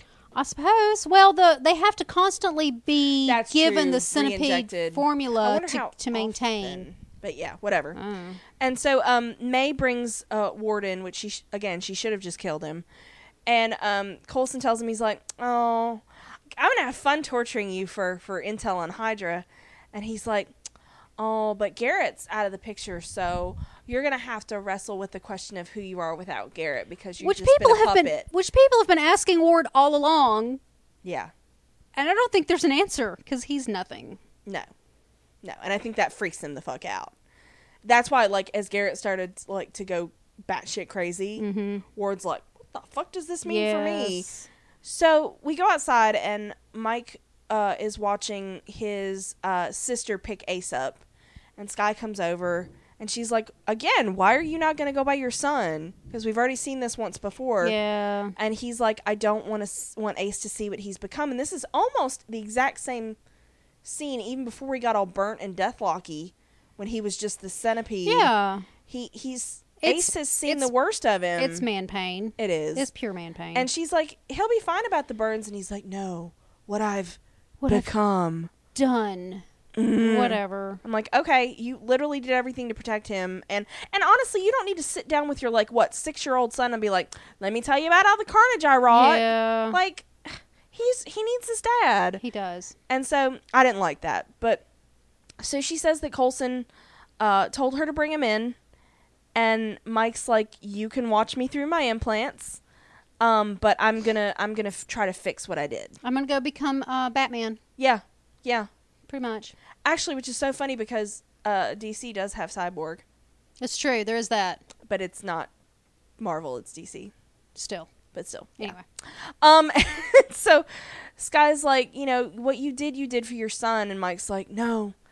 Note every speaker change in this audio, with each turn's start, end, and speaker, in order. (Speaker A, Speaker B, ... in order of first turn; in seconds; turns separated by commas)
Speaker A: 0.3-6.9, Speaker B: 3.2-8.0, Speaker A: 7.9-8.4, Speaker B: 8.6-12.8, Speaker B: 13.4-20.5, Speaker B: 21.2-28.2, Speaker A: 27.2-30.6, Speaker B: 31.0-31.3, Speaker A: 31.9-34.2, Speaker B: 35.4-37.1, Speaker B: 37.8-44.3, Speaker A: 41.4-41.9, Speaker A: 43.4-44.5, Speaker B: 44.8-51.0, Speaker B: 51.6-57.7, Speaker A: 57.6-58.3, Speaker B: 58.4-63.2, Speaker B: 63.8-68.3, Speaker A: 68.0-68.7, Speaker B: 68.9-71.7, Speaker A: 69.8-70.7, Speaker A: 71.4-73.7, Speaker B: 72.4-72.9, Speaker B: 73.5-78.5, Speaker A: 77.6-77.9, Speaker A: 78.7-79.4, Speaker B: 79.8-92.2, Speaker A: 80.0-80.8, Speaker A: 88.9-89.8, Speaker A: 92.2-92.7, Speaker B: 92.9-94.6, Speaker B: 95.4-96.7, Speaker B: 97.2-98.5, Speaker B: 99.3-102.6, Speaker B: 103.2-106.0, Speaker A: 106.0-107.6, Speaker B: 107.8-108.7, Speaker A: 109.1-109.5, Speaker B: 109.8-113.0, Speaker A: 113.6-114.6, Speaker B: 114.8-115.5, Speaker B: 116.2-117.1, Speaker A: 117.5-117.9, Speaker B: 118.1-120.7, Speaker B: 121.2-124.9